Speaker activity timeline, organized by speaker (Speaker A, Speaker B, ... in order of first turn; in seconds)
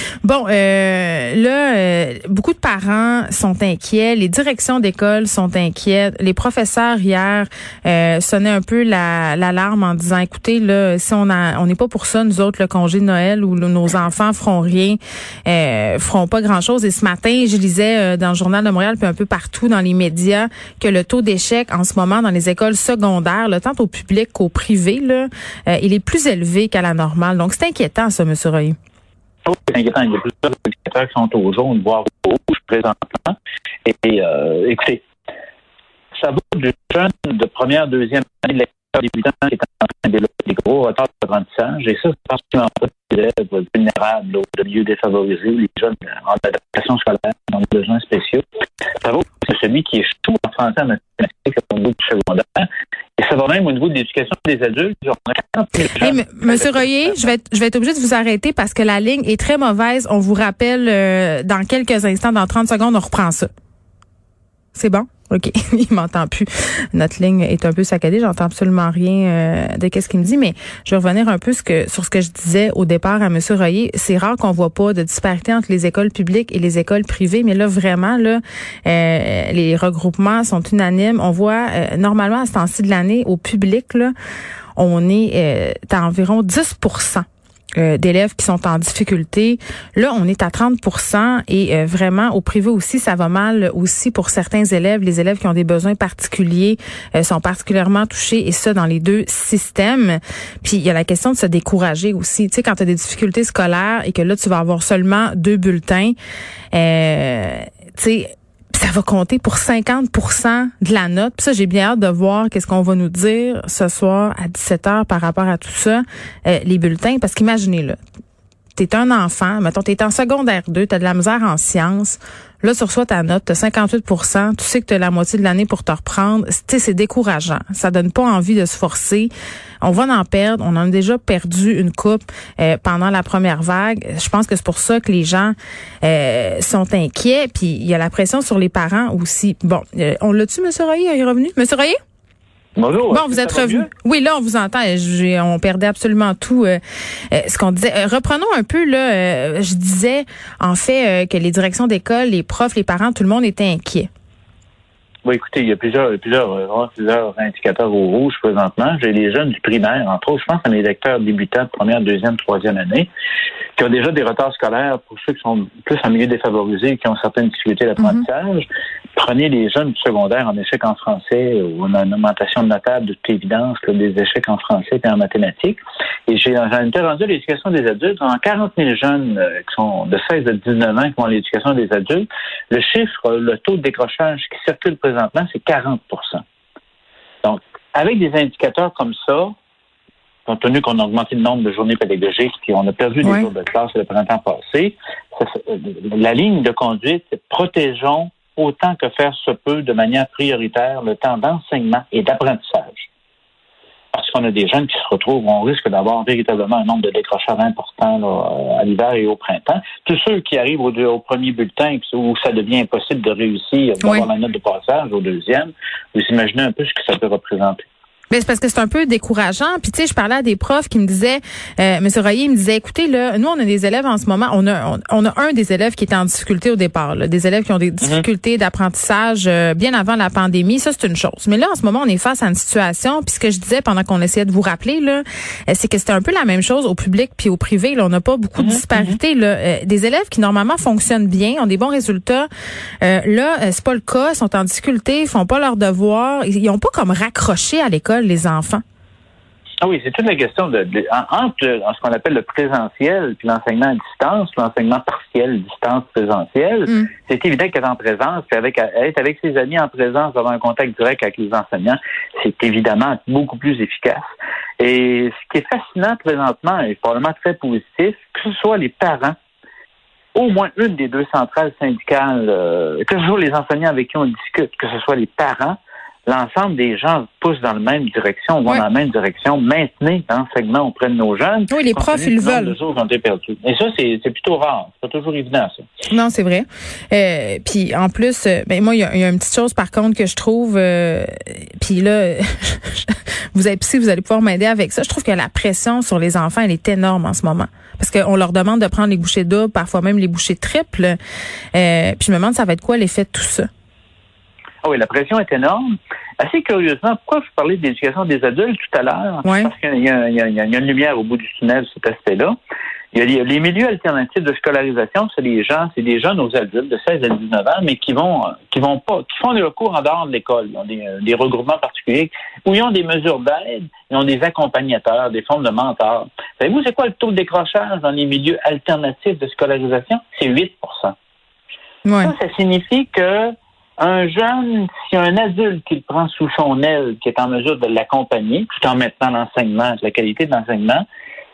Speaker A: 0.2-28.8, 56.0-63.5, 64.7-84.1, 84.8-87.2, 87.8-106.2, 106.7-118.0, 118.8-129.3, 129.8-142.0, 143.1-146.8, 147.3-154.1, 193.2-193.5, 218.3-242.5, 243.0-248.8, 281.7-282.8, 286.1-301.2, 301.7-303.7, 309.4-309.7, 332.1-332.3
Speaker B: 29.4-35.0, 36.2-48.5, 49.0-57.3, 142.8-143.9, 155.3-163.1, 163.8-186.4, 187.4-189.5, 190.5-203.1, 204.1-217.8, 238.6-239.2, 249.8-264.3, 264.8-269.4, 270.4-285.9, 304.8-312.6, 313.1-331.1, 332.2-341.1